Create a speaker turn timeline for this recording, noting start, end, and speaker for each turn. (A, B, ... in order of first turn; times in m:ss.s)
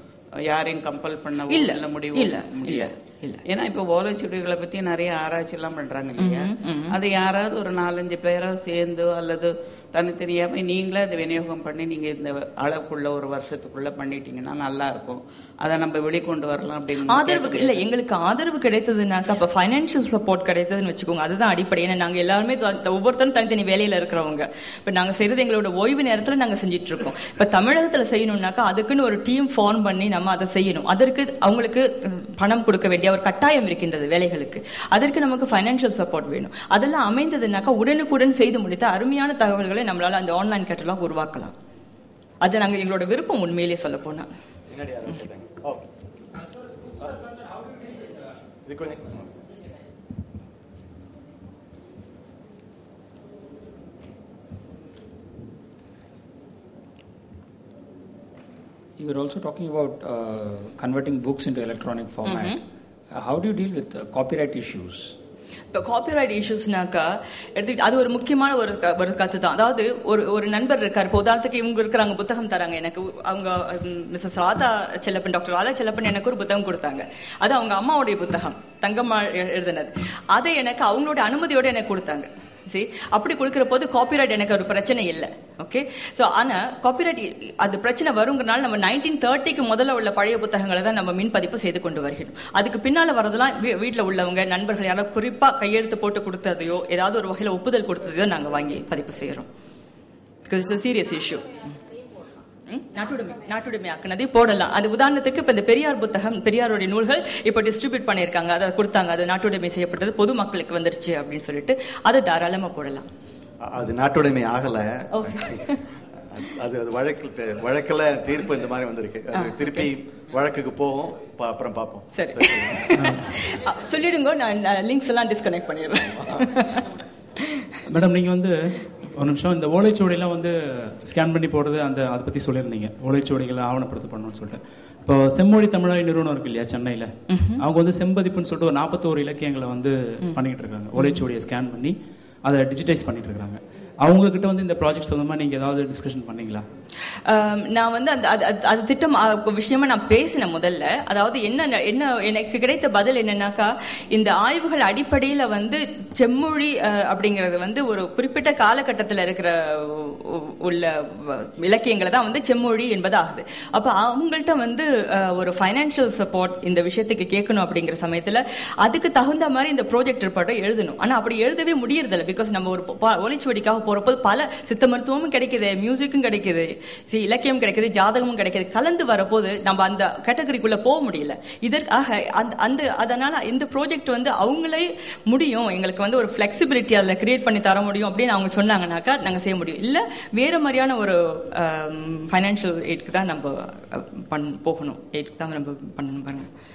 0:00.4-0:02.9 A
0:01.5-0:03.4 B
0:03.4-0:17.8 A
0:06.2-0:07.0 B
0:17.1-0:41.5 B
0:42.4-0:44.3 B
0:44.7-0:45.8 C
0:47.0-0:47.3 C
0:48.7-0:49.3 C
0:59.0-1:05.2 D
1:02.3-1:02.6 B
1:05.7-1:39.5 B
1:40.5-1:41.7 B
1:42.7-1:53.1 B
1:53.6-1:55.6 C
1:55.2-1:55.8 B
1:56.3-2:02.9 C
1:59.4-1:59.8 B
2:02.1-2:07.6 B
2:03.0-2:03.2 E
2:07.9-2:08.5 E
2:09.2-2:26.7 E
2:17.3-2:17.6 B
2:21.0-2:21.2 B
2:27.2-3:16.5 B